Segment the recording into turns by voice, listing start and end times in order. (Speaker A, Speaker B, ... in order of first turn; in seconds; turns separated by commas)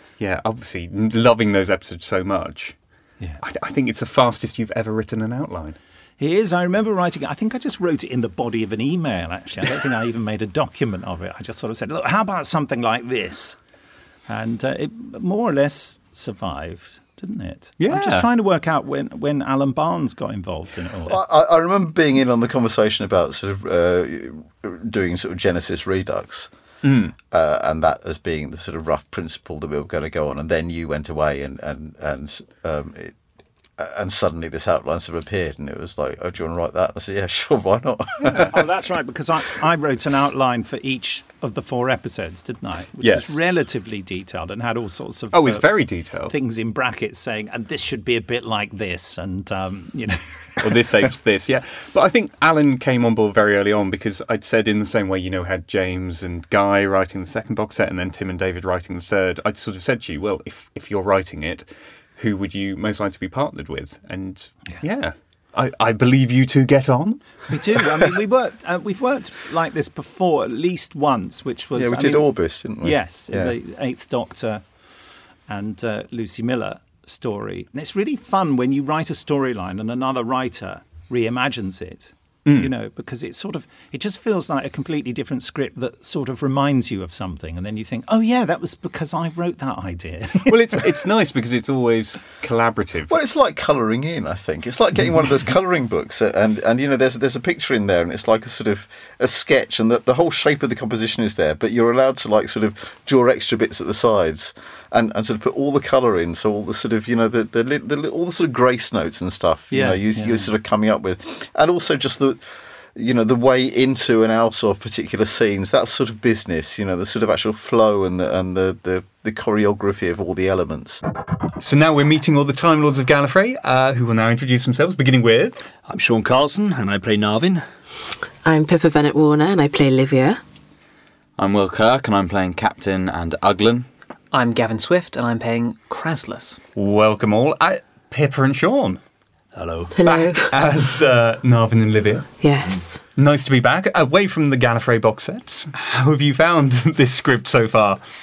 Speaker A: 0.2-2.8, Speaker A: 3.4-5.8, Speaker B: 6.2-13.6, Speaker B: 14.3-21.2, Speaker A: 17.8-18.3, Speaker C: 21.1-26.5, Speaker A: 26.8-27.1, Speaker C: 27.3-33.2, Speaker C: 33.8-38.7, Speaker B: 38.3-45.7, Speaker A: 43.0-43.4, Speaker A: 45.3-46.3, Speaker B: 46.2-50.8, Speaker A: 50.6-67.4, Speaker B: 67.5-72.3, Speaker C: 71.8-73.5, Speaker B: 72.8-74.7, Speaker B: 75.5-90.8, Speaker A: 90.5-93.1, Speaker C: 93.1-112.4, Speaker B: 109.7-110.5, Speaker C: 113.0-121.0, Speaker A: 121.6-125.7, Speaker D: 125.9-127.7, Speaker E: 128.4-130.4, Speaker F: 131.4-133.9, Speaker G: 134.3-136.6, Speaker A: 136.8-139.0, Speaker D: 139.5-139.9, Speaker E: 139.9-140.5, Speaker A: 140.1-142.3, Speaker E: 142.3-143.0, Speaker A: 143.2-148.0